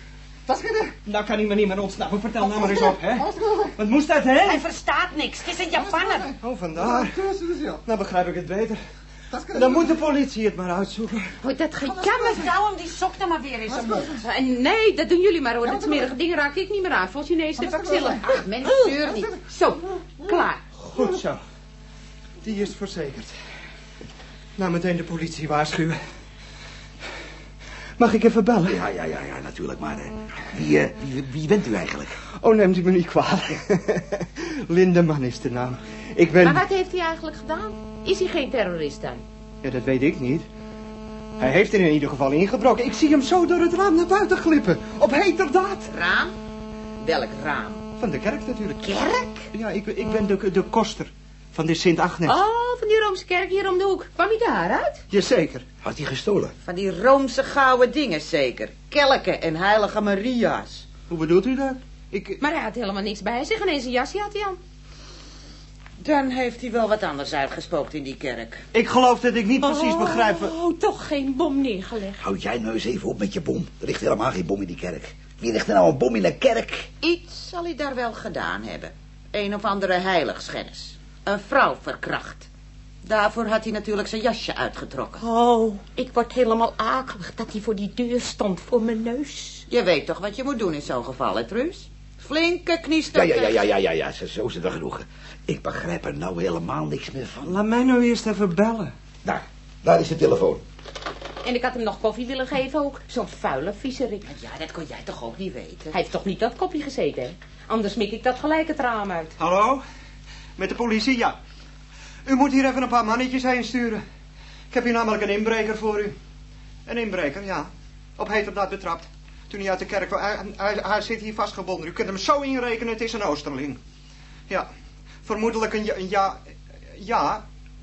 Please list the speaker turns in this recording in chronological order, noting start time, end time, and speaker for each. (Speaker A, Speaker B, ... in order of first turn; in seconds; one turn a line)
Speaker A: 0.5-1.0
Speaker B: 1.0-4.7
Speaker A: 2.5-3.8
Speaker C: 4.4-6.3
Speaker A: 5.7-7.8
Speaker B: 6.4-7.2
Speaker B: 7.8-8.8
Speaker A: 9.3-10.0
Speaker B: 9.5-11.3
Speaker D: 11.4-12.5
Speaker A: 11.9-12.4
Speaker C: 12.0-14.2
Speaker A: 13.7-14.2
Speaker D: 14.2-18.4
Speaker A: 15.6-16.1
Speaker A: 17.6-18.2
Speaker C: 18.2-19.3
Speaker A: 19.1-19.4
Speaker D: 19.4-20.6
Speaker B: 20.8-21.4
Speaker B: 22.4-23.3
Speaker B: 24.6-26.0
Speaker B: 28.0-28.8
Speaker E: 28.6-32.2
Speaker B: 32.4-36.6
Speaker D: 36.4-39.2
Speaker B: 39.6-40.5
Speaker B: 41.4-45.9
Speaker C: 45.9-46.4
Speaker C: 47.0-47.8
Speaker B: 48.0-48.8
Speaker C: 48.8-49.5
Speaker B: 49.5-52.4
Speaker D: 52.3-55.0
Speaker B: 55.1-55.6
Speaker E: 55.8-56.5
Speaker C: 56.6-60.9
Speaker B: 61.1-62.4
Speaker D: 62.4-64.6
Speaker C: 66.0-68.6
Speaker B: 68.7-70.5
Speaker D: 69.6-72.2
Speaker E: 72.2-76.9
Speaker C: 77.0-82.5
Speaker C: 83.0-85.2
Speaker D: 85.2-89.7
Speaker C: 89.7-93.6
Speaker E: 93.1-97.6
Speaker B: 97.4-98.9
Speaker E: 99.2-100.6
Speaker D: 101.4-104.3
Speaker C: 104.2-106.0
Speaker D: 105.9-109.3
Speaker B: 109.4-109.8
Speaker B: 110.6-111.4
Speaker B: 112.3-114.0
Speaker B: 114.7-116.2
Speaker B: 116.9-123.8
Speaker B: 125.2-126.4
Speaker B: 127.0-127.4